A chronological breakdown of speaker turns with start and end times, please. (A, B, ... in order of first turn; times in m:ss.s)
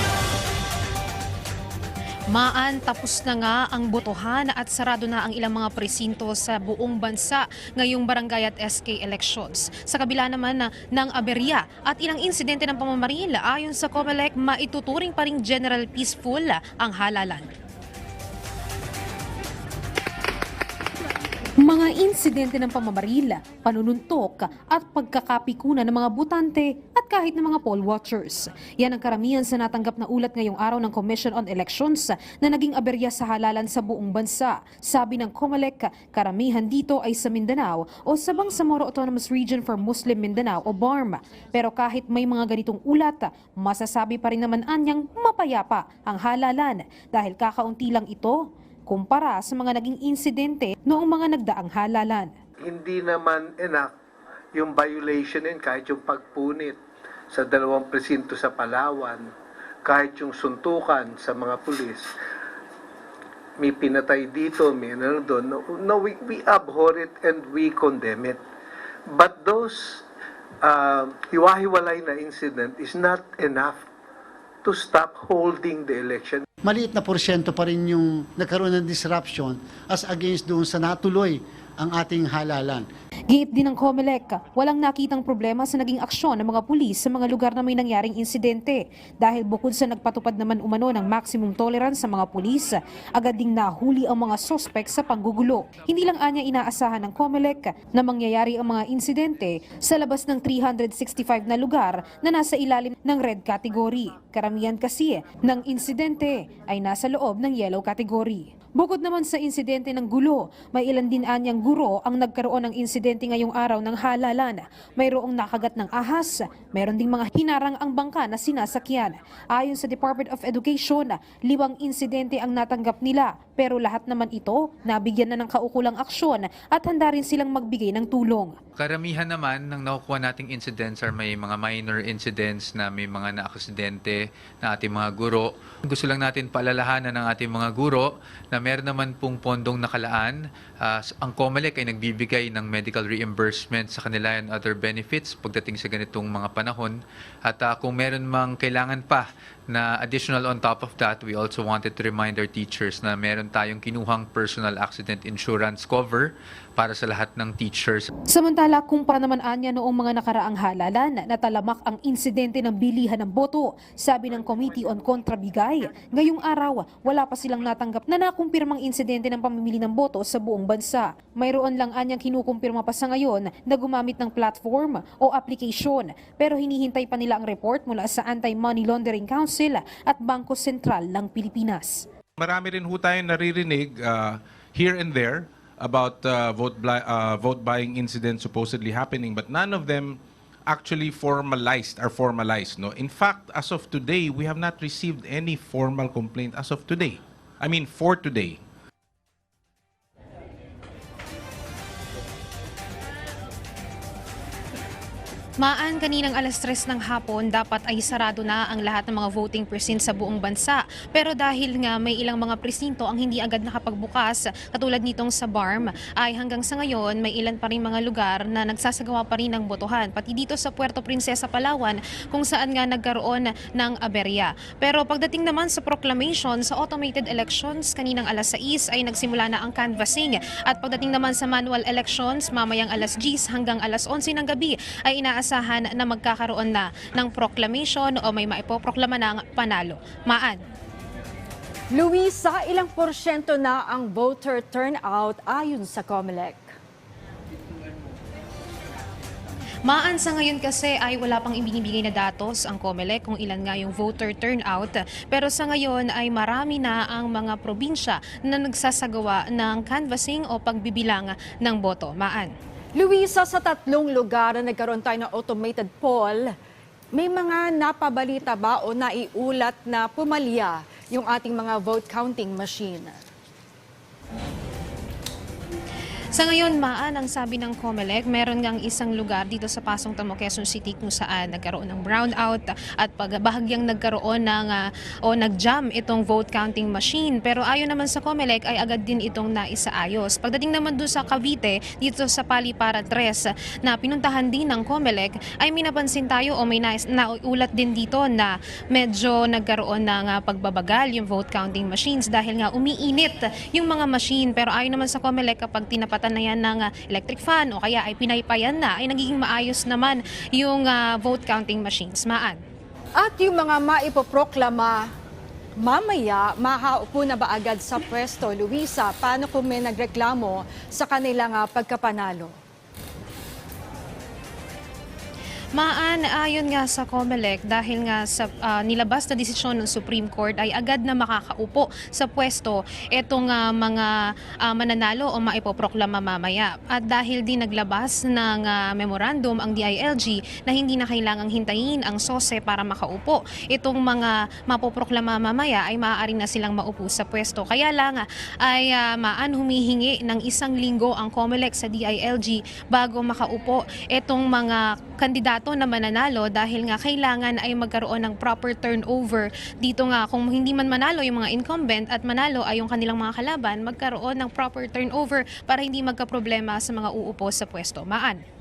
0:02.3-0:17.5 A
0:21.6-0:48.4 A
0:48.9-0:52.3 A
0:52.6-0:53.9 B
0:54.5-0:59.3 B
0:59.8-1:02.2 B
1:03.6-1:08.4 B
1:09.1-1:10.0 B
1:10.6-1:13.9 B
1:14.6-1:16.5 B
1:16.6-1:22.9 C
1:23.3-2:08.6 A
2:08.8-2:38.1 D
2:38.3-3:02.1 A
3:02.4-3:18.6 E
3:25.6-4:00.6 A
4:01.9-4:06.7 F
4:09.9-4:22.5 A
4:23.0-4:26.5 F
4:27.1-4:33.2 F
4:36.3-5:12.6 A
5:13.2-5:15.1 F
5:15.8-5:22.6 F
5:25.8-6:08.4 A